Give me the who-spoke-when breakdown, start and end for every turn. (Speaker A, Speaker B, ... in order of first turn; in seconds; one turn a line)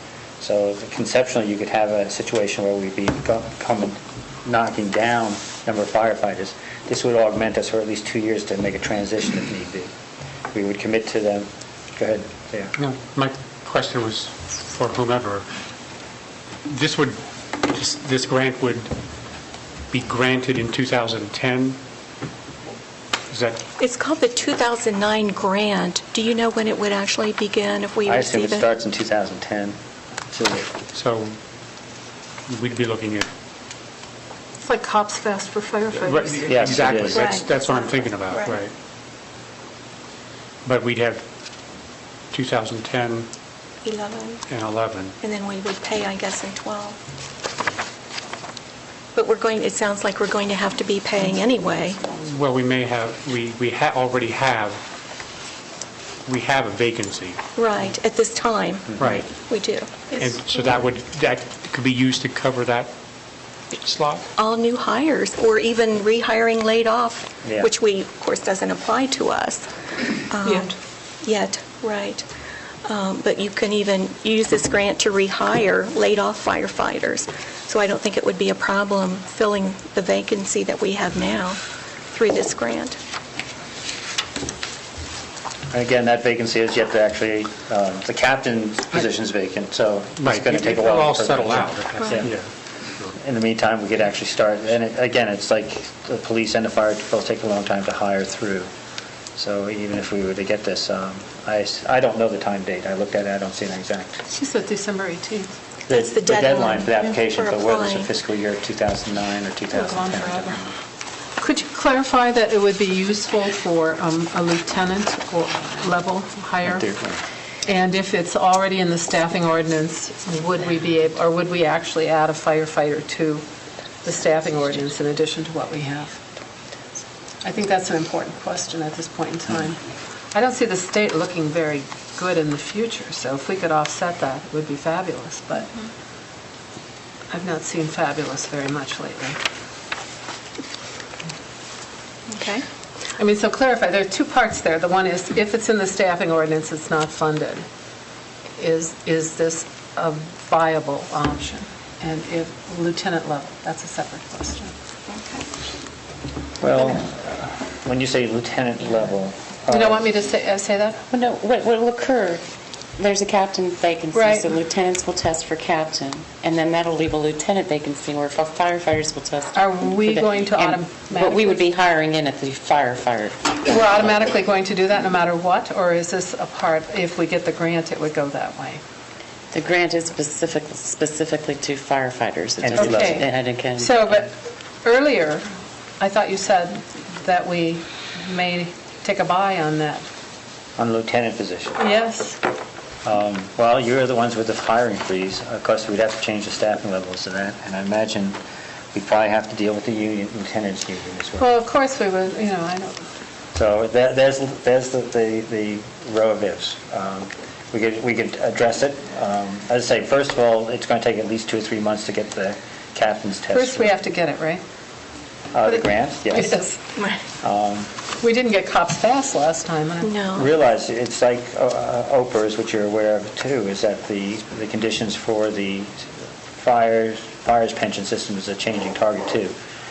Speaker A: 0.4-9.9
Speaker A: 10.5-12.7
Speaker B: 12.8-15.5
Speaker B: 16.6-18.9
Speaker B: 19.9-21.8
Speaker B: 23.3-23.6
Speaker C: 23.8-28.7
Speaker A: 28.1-29.8
Speaker A: 30.3-30.7
Speaker B: 30.9-31.4
Speaker B: 32.5-33.3
Speaker D: 34.6-36.6
Speaker B: 36.0-38.7
Speaker A: 36.5-37.3
Speaker C: 37.1-38.6
Speaker B: 40.6-41.2
Speaker B: 42.3-43.3
Speaker C: 43.8-44.4
Speaker B: 44.5-45.1
Speaker C: 45.2-47.0
Speaker C: 49.1-52.0
Speaker B: 52.1-54.8
Speaker B: 56.2-57.4
Speaker C: 57.5-60.1
Speaker B: 59.0-59.3
Speaker B: 60.2-62.9
Speaker B: 63.7-64.2
Speaker C: 64.4-69.7
Speaker C: 70.3-72.2
Speaker C: 72.8-81.6
Speaker C: 82.1-83.0
Speaker A: 85.7-92.3
Speaker B: 90.2-92.5
Speaker A: 93.2-98.7
Speaker A: 99.3-104.2
Speaker D: 104.3-105.5
Speaker A: 105.9-110.7
Speaker C: 105.9-108.1
Speaker D: 109.7-110.5
Speaker D: 111.4-116.9
Speaker A: 116.6-117.2
Speaker D: 117.6-123.4
Speaker D: 124.0-126.2
Speaker D: 127.4-129.8
Speaker D: 130.3-135.7
Speaker D: 137.3-139.4
Speaker C: 142.3-142.6
Speaker D: 143.2-147.6
Speaker D: 148.6-154.7
Speaker C: 155.1-155.4
Speaker A: 156.6-160.1
Speaker D: 159.7-161.0
Speaker E: 161.1-162.4
Speaker E: 163.0-174.2
Speaker D: 164.1-164.5
Speaker D: 169.5-171.7
Speaker D: 173.7-178.8
Speaker E: 179.5-184.0
Speaker A: 182.6-183.2
Speaker D: 182.8-184.3
Speaker D: 184.8-185.4
Speaker D: 186.0-190.0
Speaker A: 190.8-191.8
Speaker D: 191.8-192.4
Speaker A: 193.0-198.4
Speaker A: 198.9-201.4
Speaker D: 201.4-203.0
Speaker A: 203.5-214.0
Speaker D: 213.5-214.6
Speaker A: 215.5-216.6
Speaker D: 216.3-216.8
Speaker A: 217.4-217.9
Speaker D: 218.2-220.1
Speaker C: 220.0-220.5
Speaker A: 220.3-229.5